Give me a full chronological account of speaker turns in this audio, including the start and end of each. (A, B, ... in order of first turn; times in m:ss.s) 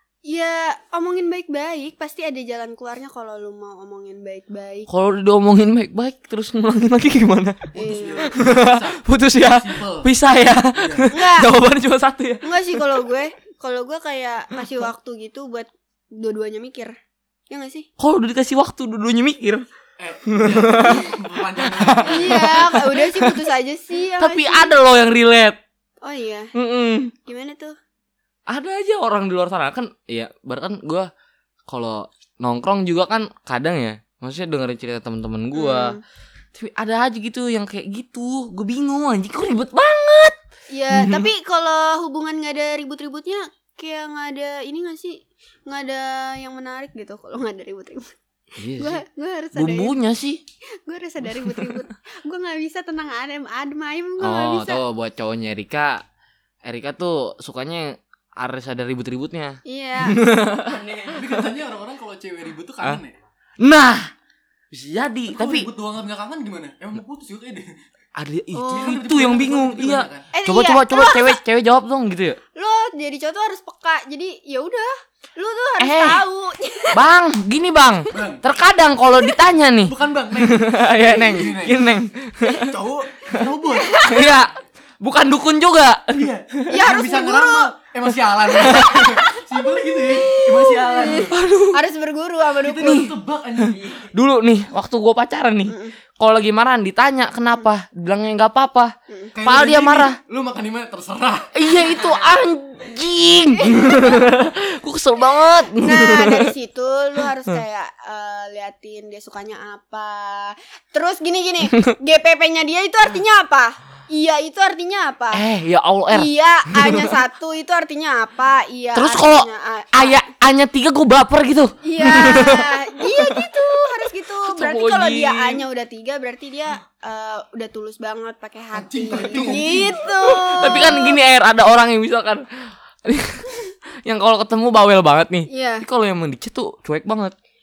0:00.2-0:04.9 A
0:04.9-0:13.0 B
0:07.7-0:10.1 C
0:07.8-0:08.3 A
0:10.8-0:11.1 C
0:11.1-0:11.5 A
0:12.4-0:17.0 A
0:17.5-0:17.9 A
0:18.0-0:19.6 B
0:20.0-0:22.6 C
0:20.3-0:21.0 B
0:21.6-0:23.4 B
0:22.0-0:24.7 A
0:24.2-0:25.6 B
0:26.0-0:26.5 A
0:26.5-0:27.1 B
0:27.2-0:27.7 A
0:28.5-0:31.1 B
0:31.7-0:36.0 B
0:35.5-0:36.0 A
0:36.5-0:40.4 B
0:40.7-0:48.2 A
0:40.9-0:41.3 B
0:48.6-0:49.0 B
0:48.8-0:49.9 A
0:49.5-0:50.4 B
0:50.8-0:54.8 A
0:51.4-0:51.8 B
0:54.2-0:56.0 B
0:56.6-1:01.4 B
0:59.6-1:00.2 A
1:00.8-1:03.1 C
1:03.6-1:04.1 B
1:04.7-1:05.7 B
1:05.3-1:07.8 C
1:08.2-1:12.4 B
1:08.5-1:08.9 A
1:08.7-1:10.3 C
1:10.3-1:11.4 A
1:12.6-1:17.0 A
1:15.8-1:16.2 B
1:16.9-1:22.7 B
1:18.1-1:18.4 C
1:19.8-1:22.0 C
1:22.5-1:24.2 C
1:23.9-1:24.3 A
1:24.0-1:26.3 B
1:26.2-1:31.4 C
1:26.7-1:27.7 A
1:28.6-1:29.4 A
1:28.7-1:29.1 B
1:29.9-1:33.1 A
1:31.3-1:31.8 B
1:32.6-1:34.1 C
1:32.8-1:33.1 B
1:34.1-1:40.2 B
1:35.7-1:35.9 A
1:39.1-1:39.3 A
1:39.4-1:41.5 C
1:41.5-1:46.5 B
1:43.6-1:44.3 A
1:45.8-1:55.4 A
1:55.3-1:57.1 B
1:56.1-2:00.3 A
1:58.9-2:03.4 B
2:01.8-2:11.2 A
2:04.4-2:05.6 B
2:08.7-2:10.1 C
2:10.5-2:13.5 B
2:14.0-2:17.3 B
2:15.5-2:15.8 A